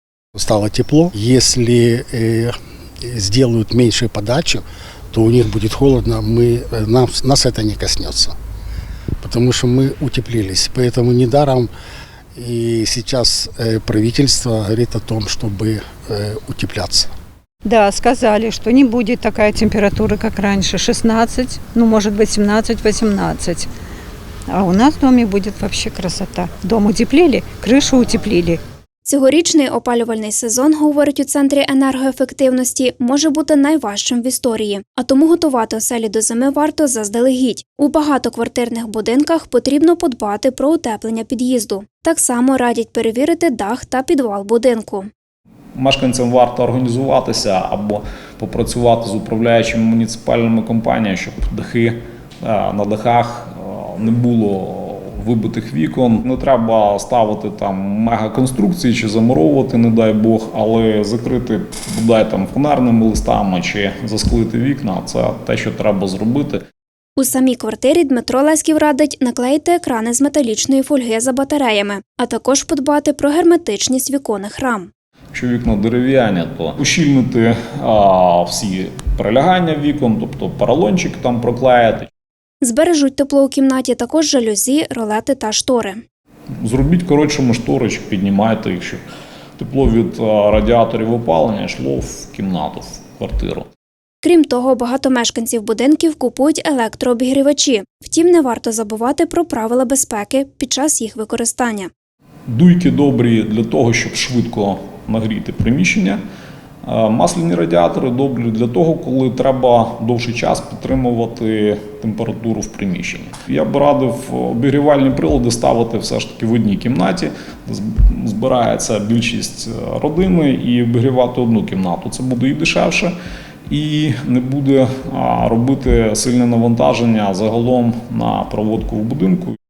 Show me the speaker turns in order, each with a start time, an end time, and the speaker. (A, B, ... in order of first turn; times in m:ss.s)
0:00.3-0:08.3 A
0:09.2-0:11.7 A
0:12.4-0:17.1 A
0:17.6-0:23.7 B
0:24.5-0:28.6 B
0:29.0-0:45.1 C
0:45.7-1:06.6 D
1:07.2-1:14.9 C
1:15.3-1:22.1 D
1:22.6-1:26.0 C
1:26.6-1:29.0 D
1:29.6-1:33.7 D
1:34.2-1:41.9 C
1:42.5-1:46.2 D
1:46.8-2:03.1 D
2:03.7-2:09.6 D